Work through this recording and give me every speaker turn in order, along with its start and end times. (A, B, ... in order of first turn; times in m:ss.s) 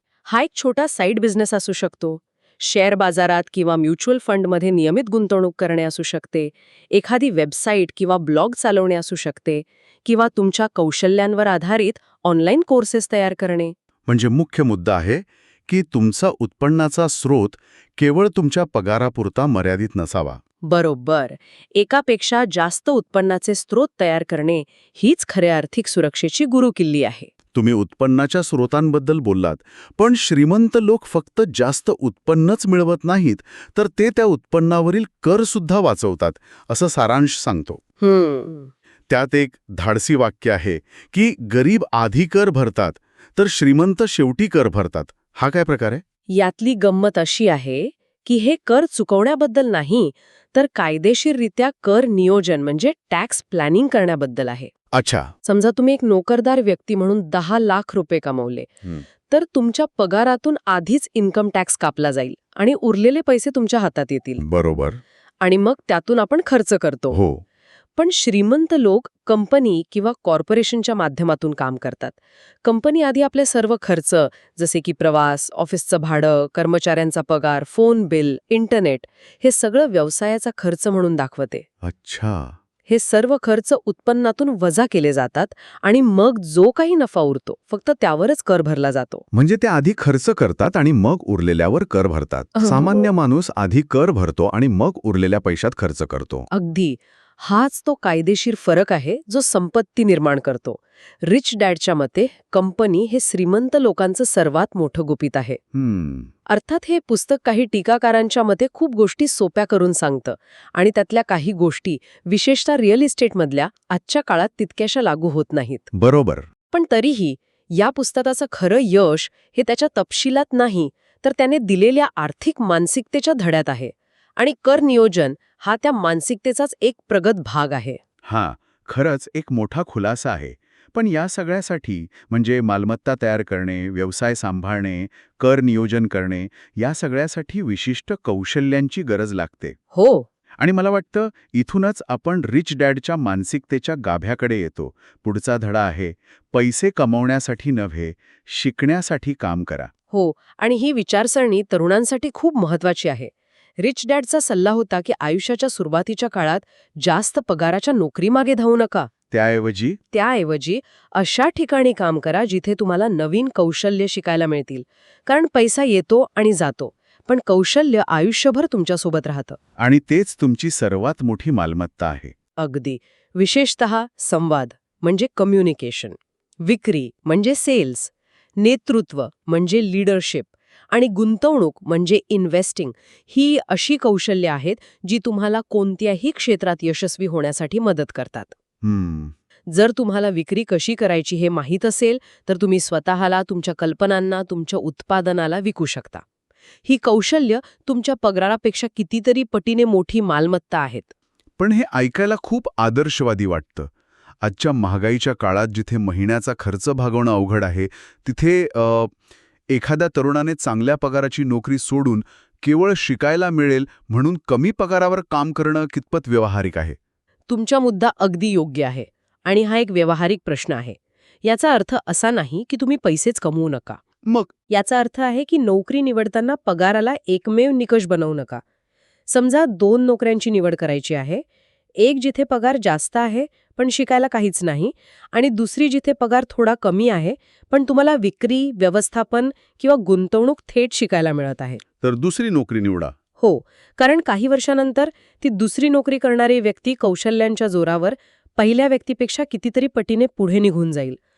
0:00.3-0:13.7 A
0:14.1-0:20.4 B
0:20.6-0:27.3 A
0:27.5-0:37.8 B
0:38.0-0:38.7 A
0:39.1-0:46.0 B
0:46.3-0:54.7 A
0:54.9-0:55.3 B
0:55.5-0:58.7 A
0:59.3-1:04.4 A
1:04.4-1:05.0 B
1:05.4-1:07.2 A
1:07.1-1:07.4 B
1:08.0-1:21.7 A
1:21.8-1:22.6 B
1:22.9-1:29.2 A
1:29.3-1:36.5 B
1:32.6-1:33.0 A
1:36.5-1:45.6 A
1:45.7-1:46.3 B
1:46.5-1:55.9 A
1:55.9-1:56.5 B
1:56.7-2:08.0 A
2:08.3-2:19.8 B
2:19.9-2:20.3 A
2:20.6-2:29.9 B
2:30.1-2:39.1 A
2:39.3-2:40.0 B
2:40.1-2:49.6 A
2:49.8-2:52.3 B
2:52.6-3:08.5 A
3:08.8-3:09.3 B
3:09.7-3:16.2 A
3:16.8-3:21.1 A
3:21.6-3:23.9 B
3:24.4-3:29.1 B
3:29.7-3:37.0 B
3:37.5-3:44.0 A
3:44.7-3:48.6 A
3:49.3-3:51.4 A
3:52.0-4:01.8 A
4:02.0-4:03.1 B
4:03.4-4:11.2 A